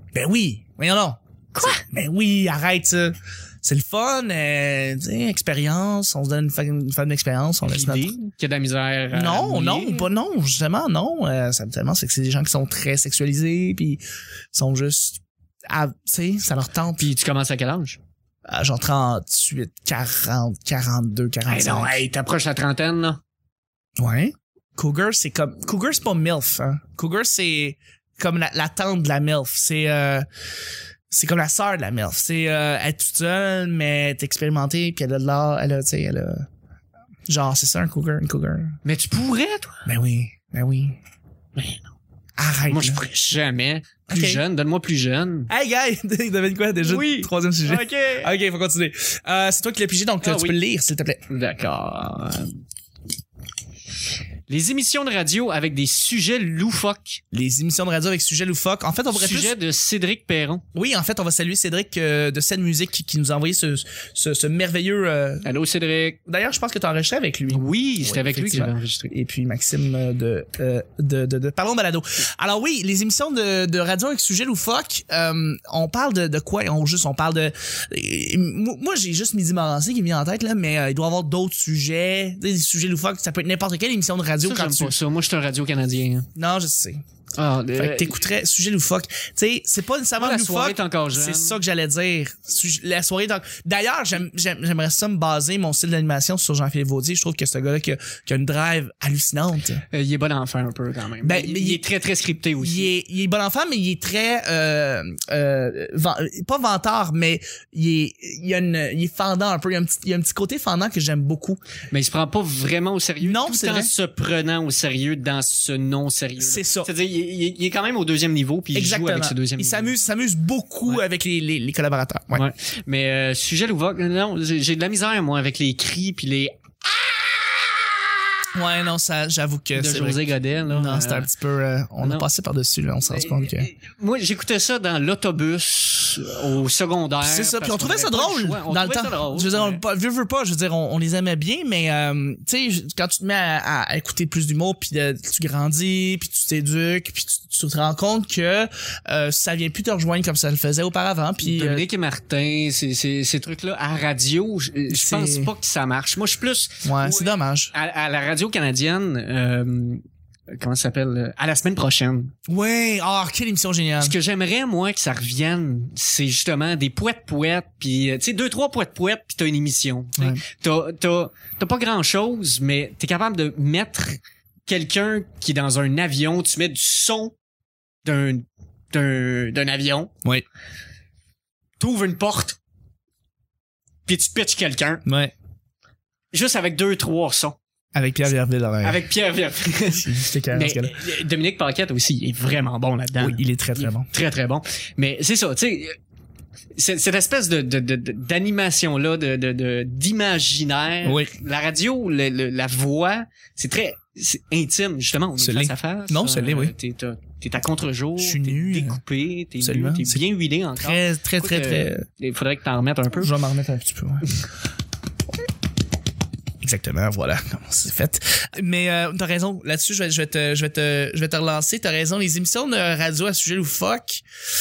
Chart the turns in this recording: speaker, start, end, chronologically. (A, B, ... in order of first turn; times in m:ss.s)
0:00.1-0:08.1 A
0:01.5-0:01.8 B
0:07.6-0:10.1 B
0:09.1-0:14.0 A
0:14.5-0:17.1 A
0:17.0-0:18.0 B
0:18.5-0:22.0 A
0:21.5-0:23.2 B
0:24.0-0:30.3 A
0:31.1-0:36.5 A
0:37.3-0:38.8 A
0:38.8-0:39.8 B
0:39.8-0:41.0 A
0:41.6-0:41.9 B
0:42.4-0:43.1 A
0:42.7-0:45.5 B
0:44.1-0:44.4 A
0:45.5-0:51.2 A
0:46.8-0:48.3 B
0:50.2-0:50.6 B
0:51.3-0:52.5 B
0:54.5-0:57.2 B
0:57.3-0:59.5 A
0:59.1-1:00.6 B
1:00.7-1:05.4 A
1:05.4-1:06.2 B
1:06.3-1:25.0 A
1:07.5-1:09.1 B
1:24.4-1:26.3 B
1:26.4-1:27.0 A
1:27.4-1:28.2 B
1:27.8-1:39.8 A
1:30.2-1:31.6 B
1:39.9-1:42.9 B
1:41.2-1:41.8 A
1:42.6-1:51.6 A
1:51.9-1:59.9 B
1:53.2-1:53.9 A
1:56.4-1:56.9 A
1:58.7-2:02.4 A
2:02.3-2:07.8 B
2:08.5-2:13.7 A
2:09.7-2:11.3 B
2:12.0-2:12.2 B
2:13.1-2:19.8 B
2:17.2-2:31.8 A
2:31.4-2:42.3 B
2:34.9-2:35.5 A
2:36.8-2:37.7 A
2:42.5-2:44.2 A
2:44.0-2:57.3 B
2:50.2-2:50.4 A
2:58.0-3:00.1 B
3:01.8-3:02.6 B
3:04.0-3:05.0 B
3:05.0-3:05.3 A
3:06.3-3:07.6 B
3:07.9-3:09.0 A
3:08.8-3:16.0 B
3:09.9-3:11.0 A
3:13.2-3:14.1 A
3:16.7-3:33.3 B
3:21.0-3:21.3 A
3:25.4-3:26.7 A
3:28.2-3:29.0 A
3:29.6-3:30.2 A
3:30.8-3:32.0 A
3:33.2-3:34.3 A
3:36.6-3:44.2 A